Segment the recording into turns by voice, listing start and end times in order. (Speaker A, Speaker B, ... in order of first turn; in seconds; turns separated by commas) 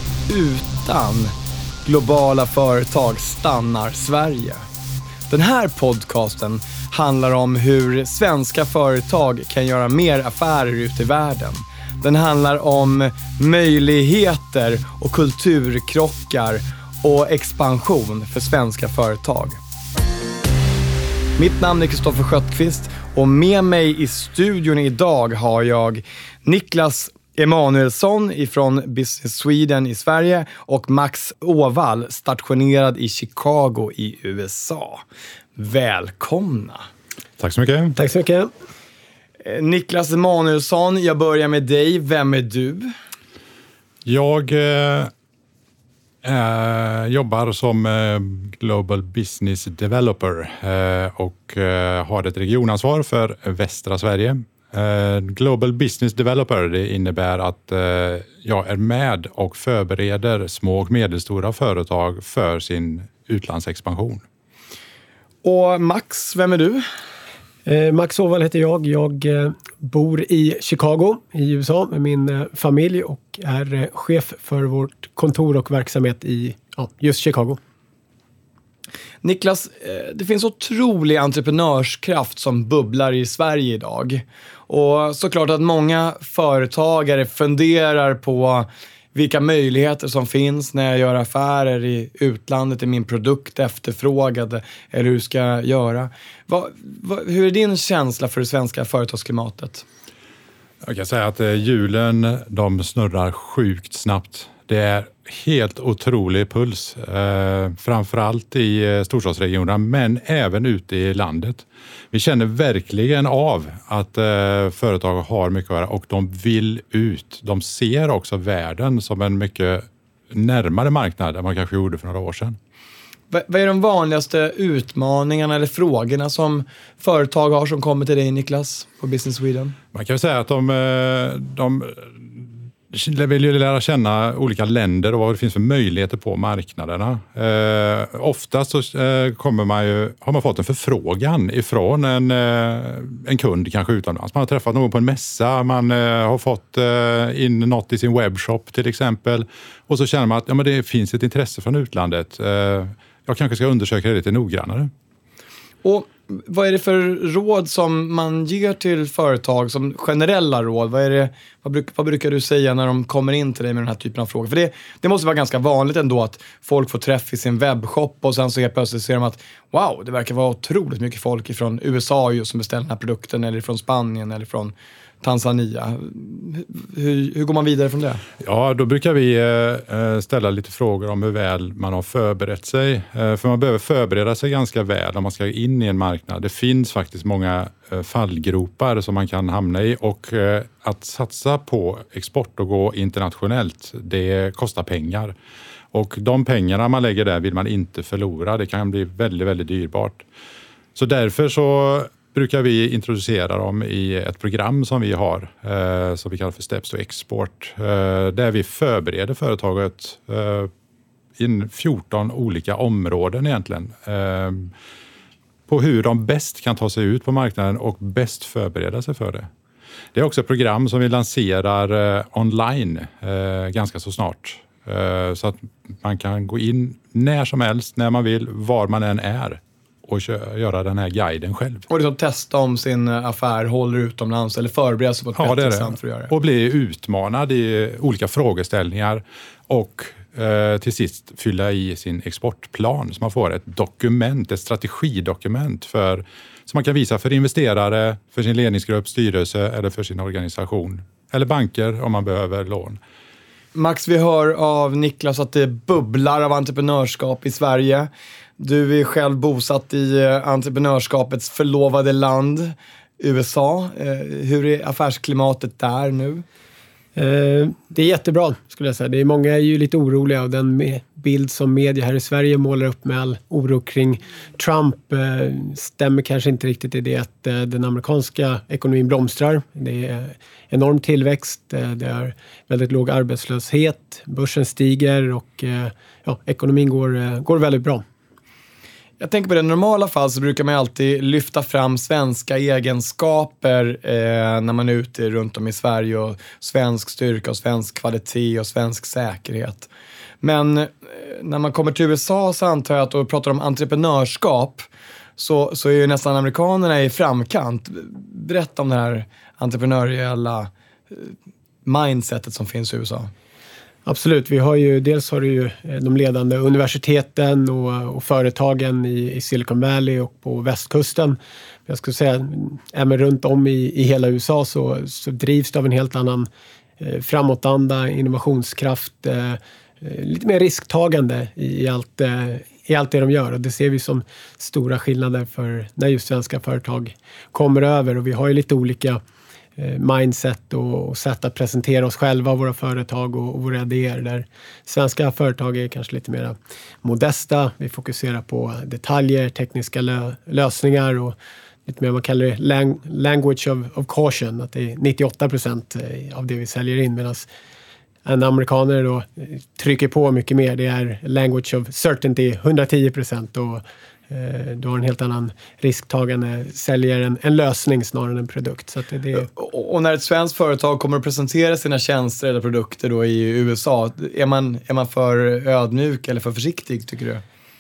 Speaker A: 0.3-1.3, Speaker A: 1.9-4.6, Speaker A: 5.3-19.6, Speaker A: 21.4-35.0, Speaker A: 35.6-36.9, Speaker B: 37.4-38.0, Speaker C: 38.0-38.5, Speaker A: 39.4-42.9, Speaker B: 44.0-45.1, Speaker B: 46.2-64.2, Speaker A: 65.4-66.8, Speaker C: 67.7-77.6, Speaker A: 79.2-99.8, Speaker B: 100.8-122.6, Speaker A: 123.3-129.8, Speaker B: 129.9-154.9, Speaker A: 155.8-178.2, Speaker B: 178.4-195.3, Speaker B: 195.9-200.2, Speaker B: 200.9-210.7, Speaker B: 211.4-214.7, Speaker B: 215.7-219.5, Speaker B: 220.1-231.9, Speaker A: 231.9-236.3, Speaker B: 235.4-253.0, Speaker A: 253.7-266.4, Speaker C: 267.2-288.0, Speaker A: 289.2-299.9, Speaker A: 300.4-311.3, Speaker A: 311.9-313.3, Speaker C: 314.1-326.5, Speaker C: 327.0-339.2, Speaker C: 339.8-351.4, Speaker C: 351.9-357.5, Speaker C: 358.2-369.5, Speaker A: 369.4-377.4